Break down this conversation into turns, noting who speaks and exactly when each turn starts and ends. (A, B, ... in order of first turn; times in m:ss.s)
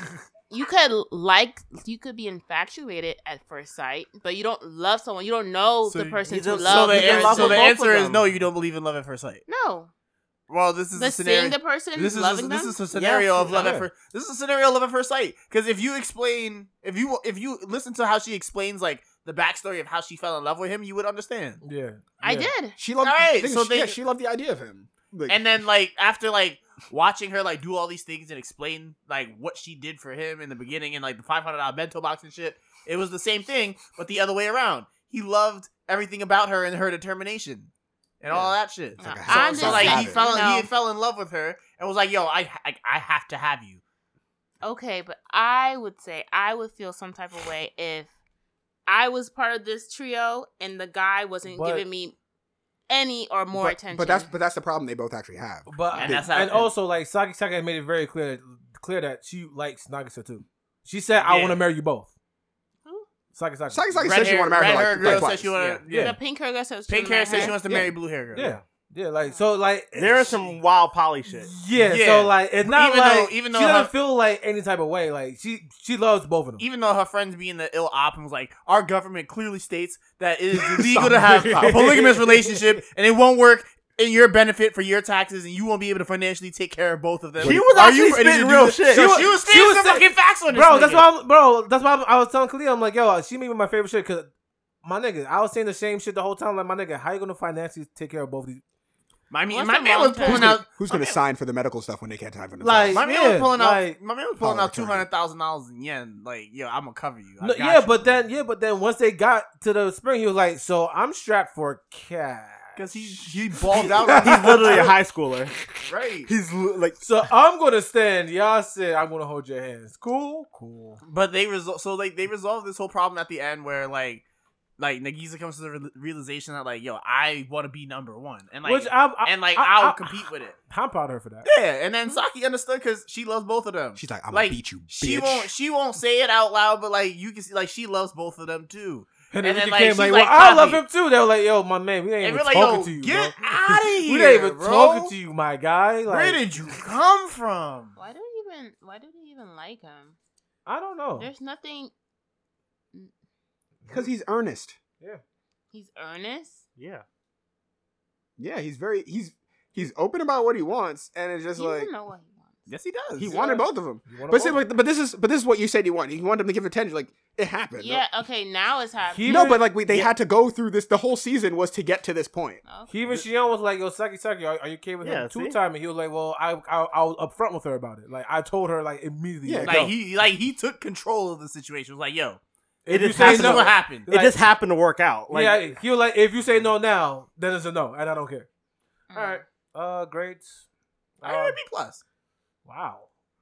0:00.5-0:07.8 A
0:05.9-0:09.4 B
0:06.3-0:08.3 C
0:09.5-0:09.9 A
0:10.5-0:21.6 B
0:10.9-0:12.8 A
0:12.9-0:13.8 C
0:13.6-0:13.9 D
0:21.6-0:22.5 D
0:22.2-0:22.8 A
0:22.8-0:25.4 E
0:23.0-0:24.0 B
0:25.3-0:43.8 B
0:38.3-0:40.2 E
0:39.0-0:40.7 A
0:44.6-0:48.1 A
0:48.9-0:52.1 A
0:51.4-0:51.9 D
0:52.9-0:54.3 A
0:53.5-0:56.7 E
0:55.7-1:02.1 D
0:55.9-0:56.7 B
1:01.2-1:01.6 B
1:03.3-1:04.2 D
1:03.7-1:05.5 E
1:04.0-1:06.2 B
1:05.0-1:05.3 D
1:05.0-1:05.8 C
1:05.8-1:06.2 D
1:05.9-1:07.6 A
1:06.9-1:08.5 B
1:07.3-1:07.9 E
1:08.3-1:10.6 D
1:09.9-1:11.5 C
1:11.4-1:16.6 D
1:11.8-1:13.9 B
1:16.6-1:31.1 B
1:20.6-1:22.6 E
1:21.6-1:22.0 D
1:27.4-1:27.7 E
1:27.4-1:29.3 C
1:28.9-1:34.3 D
1:34.8-1:38.6 D
1:39.3-1:41.2 B
1:39.5-1:40.6 A
1:40.2-1:43.0 E
1:42.6-1:44.0 D
1:42.9-1:48.0 B
1:44.4-1:45.1 E
1:47.4-1:52.9 D
1:52.8-1:54.9 B
1:53.8-1:54.7 E
1:54.1-1:55.5 C
1:55.8-1:56.3 B
1:56.3-1:57.0 C
1:57.0-2:01.0 D
2:01.0-2:04.2 B
2:04.8-2:10.6 B
2:08.6-2:11.5 D
2:11.4-2:20.8 B
2:13.9-2:15.5 E
2:19.3-2:26.4 D
2:22.2-2:25.1 B
2:26.1-2:27.9 B
2:28.0-2:30.1 A
2:30.6-2:31.3 D
2:31.2-2:31.9 A
2:33.9-2:34.8 E
2:35.7-2:36.6 A
2:36.8-2:37.0 C
2:38.4-2:41.9 E
2:41.6-2:42.7 A
2:42.7-2:43.4 B
2:43.2-2:48.0 E
2:44.1-2:44.6 D
2:47.8-2:49.7 A
2:49.1-2:49.6 D
2:49.2-2:52.6 E
2:49.9-2:50.1 C
2:52.6-2:53.2 A
2:52.9-2:59.9 D
2:55.0-2:55.6 C
2:59.4-2:59.9 E
2:59.6-3:02.4 B
3:02.8-3:04.4 D
3:02.9-3:05.6 C
3:03.2-3:04.1 B
3:05.3-3:08.5 D
3:09.1-3:09.4 A
3:09.1-3:10.6 D
3:11.2-3:11.6 D
3:11.2-3:12.0 B
3:12.6-3:13.1 D